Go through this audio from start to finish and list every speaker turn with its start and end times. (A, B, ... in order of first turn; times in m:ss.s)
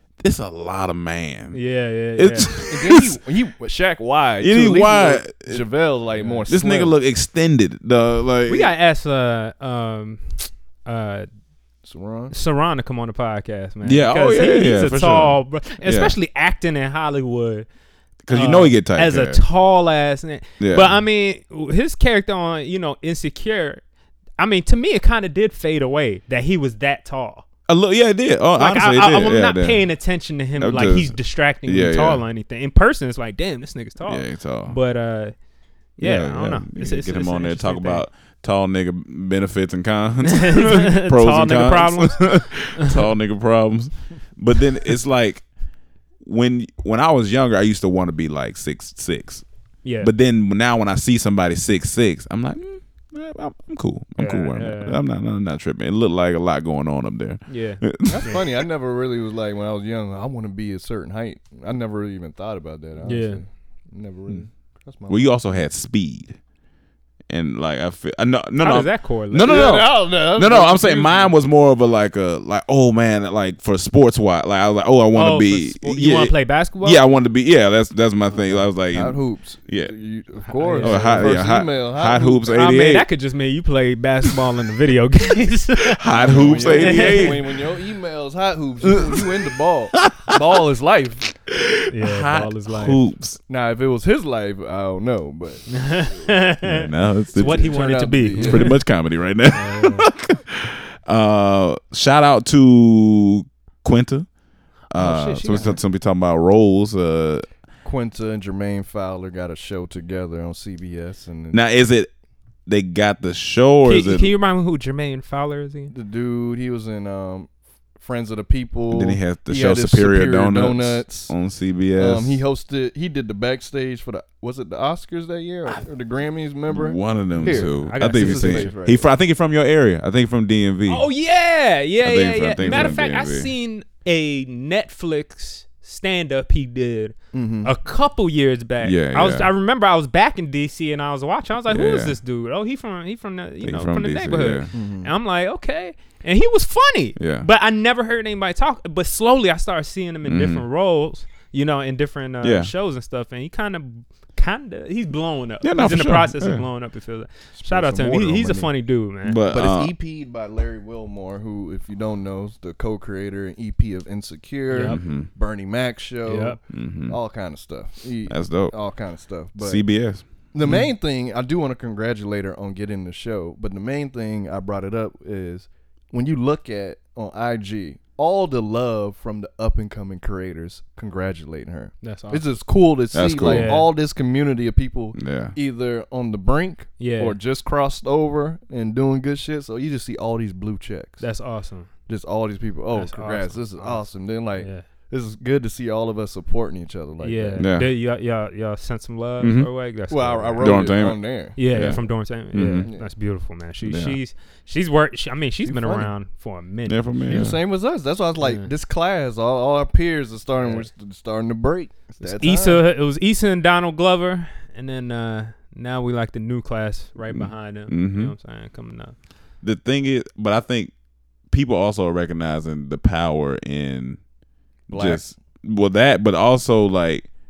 0:00.2-0:01.6 A
0:01.5-0:02.5 B
0:02.2-0:03.2 A
0:02.6-0:06.9 C
0:04.4-0:05.6 A
0:06.2-0:06.4 B
0:06.5-0:08.7 A
0:08.5-0:11.3 B
0:11.8-0:12.3 C
0:12.3-0:17.7 B
0:13.8-0:16.1 A
0:18.2-0:19.4 A
0:18.3-0:23.8 B
0:20.6-0:21.0 A
0:24.4-0:27.4 B
0:27.7-0:29.8 A
0:28.6-0:35.3 B
0:30.6-0:32.2 A
0:34.0-0:34.8 A
0:36.0-0:38.0 B
0:36.0-0:45.4 A
0:40.2-0:42.9 B
0:46.2-0:49.4 A
0:49.8-0:50.1 B
0:50.0-0:58.4 A
0:54.2-0:55.0 B
0:57.5-0:58.4 B
0:58.1-1:05.4 C
1:03.0-1:03.4 B
1:05.1-1:06.4 A
1:07.3-1:19.9 A
1:08.6-1:09.8 B
1:09.4-1:11.3 C
1:15.1-1:17.0 B
1:18.4-1:22.5 C
1:20.5-1:21.4 B
1:20.8-1:23.0 A
1:22.5-1:27.4 B
1:25.8-1:27.5 A
1:26.1-1:31.3 C
1:28.8-1:30.5 A
1:31.5-1:33.4 A
1:31.9-1:33.0 B
1:33.5-1:36.3 C
1:35.7-1:38.8 B
1:36.6-1:37.7 A
1:37.4-1:38.8 C
1:38.4-1:44.3 A
1:39.5-1:40.1 B
1:44.9-1:47.4 A
1:44.9-1:45.8 B
1:47.8-1:51.6 C
1:51.5-1:52.1 A
1:52.6-1:54.3 A
1:53.8-1:55.9 B
1:55.9-2:01.4 C
1:58.9-2:02.4 A
2:01.9-2:09.0 C
2:06.7-2:11.0 A
2:07.4-2:08.7 B
2:10.9-2:39.4 B
2:12.0-2:13.5 A
2:12.6-2:13.0 C
2:17.3-2:17.7 C
2:18.8-2:19.5 A
2:21.7-2:22.2 A
2:23.6-2:24.7 A
2:24.7-2:25.1 C
2:27.2-2:27.5 A
2:30.2-2:30.6 A
2:32.4-2:32.7 A
2:35.6-2:36.6 A
2:37.6-2:38.7 C
2:39.2-2:39.9 A
2:39.5-2:49.8 C
2:44.7-2:45.0 B
2:44.8-2:45.3 A
2:46.2-2:46.6 B
2:46.7-2:47.2 A
2:48.3-2:48.7 A
2:49.6-2:50.2 A
2:50.5-3:11.3 C
3:02.0-3:02.4 B
3:03.1-3:03.7 A
3:03.5-3:03.9 B
3:05.1-3:05.5 A
3:07.0-3:07.4 B
3:11.2-3:11.9 B
3:12.1-3:17.7 C
3:12.9-3:14.8 B
3:17.2-3:20.9 B
3:17.6-3:17.9 A
3:19.4-3:19.7 A
3:20.1-3:22.1 C
3:20.6-3:22.0 A
3:21.6-3:27.2 B
3:22.5-3:22.9 A
3:22.8-3:23.1 C
3:23.8-3:24.2 A
3:25.6-3:26.1 C
3:26.8-3:27.6 A
3:27.2-3:32.8 C
3:28.4-3:28.7 B
3:30.6-3:30.9 B
3:32.2-3:39.1 B
3:37.3-3:38.3 A
3:39.6-3:40.9 A
3:41.5-3:44.2 A
3:44.9-3:45.3 C
3:44.9-3:47.3 A